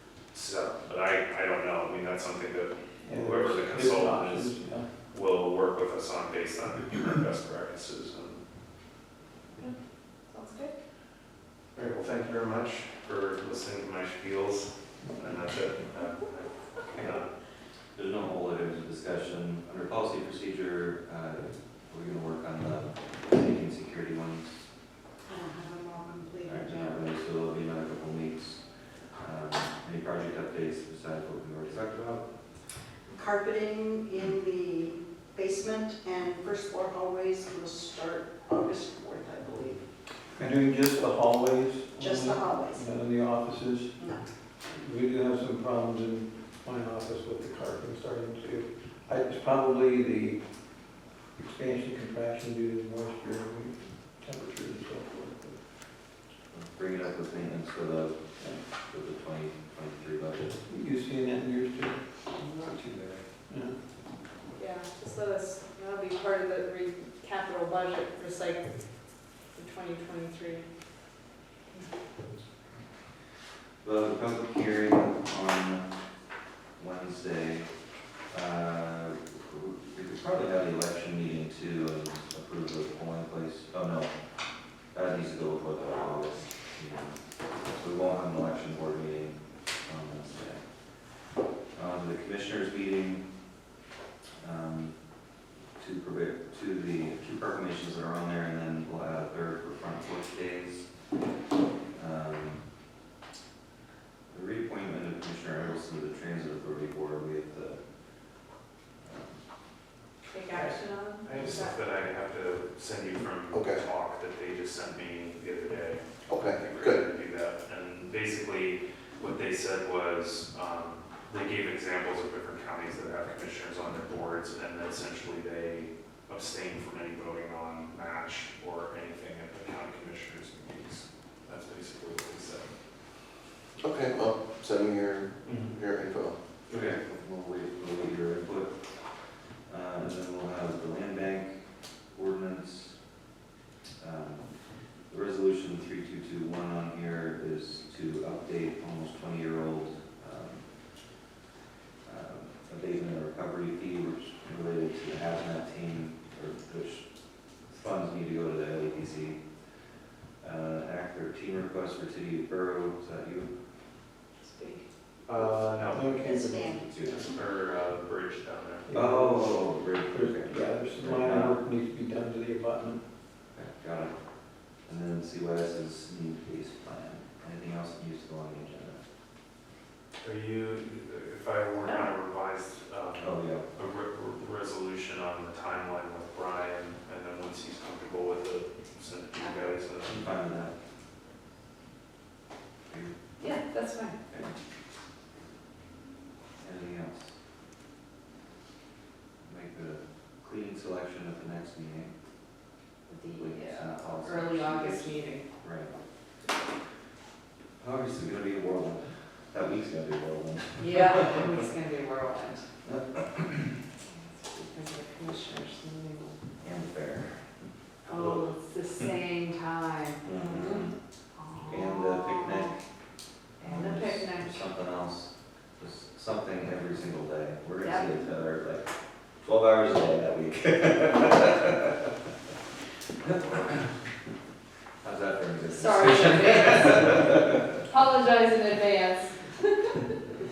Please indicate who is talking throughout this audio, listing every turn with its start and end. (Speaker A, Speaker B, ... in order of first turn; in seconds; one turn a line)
Speaker A: 0.3-8.4
Speaker B: 3.0-4.9
Speaker C: 9.6-10.7
Speaker A: 11.7-17.3
Speaker D: 17.9-24.6
Speaker E: 25.2-27.1
Speaker D: 26.4-32.2
Speaker E: 33.1-39.8
Speaker B: 40.4-44.0
Speaker E: 42.0-42.8
Speaker E: 44.0-44.2
Speaker B: 44.7-50.8
Speaker B: 51.4-55.6
Speaker D: 56.5-60.6
Speaker B: 60.6-62.0
Speaker D: 62.5-63.2
Speaker B: 63.5-63.7
Speaker C: 64.5-70.7
Speaker D: 73.8-75.9
Speaker D: 76.8-77.7
Speaker D: 78.3-84.1
Speaker D: 84.7-91.0
Speaker D: 91.7-93.3
Speaker D: 94.4-101.1
Speaker D: 101.9-102.7
Speaker D: 104.3-108.4
Speaker D: 109.0-109.4
Speaker C: 110.3-111.8
Speaker A: 111.2-132.7
Speaker F: 113.5-113.8
Speaker F: 116.3-117.0
Speaker F: 133.8-136.3
Speaker A: 135.4-135.8
Speaker D: 136.7-143.0
Speaker D: 144.0-150.9
Speaker D: 152.0-159.9
Speaker D: 160.4-163.5
Speaker C: 164.4-164.8
Speaker A: 165.3-168.9
Speaker B: 165.8-166.4
Speaker E: 166.0-166.9
Speaker D: 166.8-167.3
Speaker B: 168.9-173.0
Speaker D: 168.9-171.6
Speaker D: 173.5-174.1
Speaker D: 174.7-179.0
Speaker A: 180.2-190.2
Speaker C: 181.8-182.1
Speaker D: 183.2-183.7
Speaker D: 190.0-190.7
Speaker D: 192.9-193.5
Speaker C: 193.4-194.2
Speaker D: 194.3-194.5
Speaker D: 196.6-197.3
Speaker D: 199.4-202.1
Speaker C: 203.1-205.5
Speaker D: 203.3-205.9
Speaker D: 207.8-211.5
Speaker C: 210.8-212.7
Speaker D: 212.8-213.8
Speaker C: 214.1-216.5
Speaker D: 216.6-217.6
Speaker C: 218.0-222.7
Speaker D: 220.2-220.9
Speaker D: 221.6-222.8
Speaker C: 223.6-224.7
Speaker D: 223.6-232.1
Speaker C: 227.8-228.1
Speaker A: 233.2-233.9
Speaker D: 233.2-233.9
Speaker D: 235.0-237.8
Speaker C: 235.7-240.1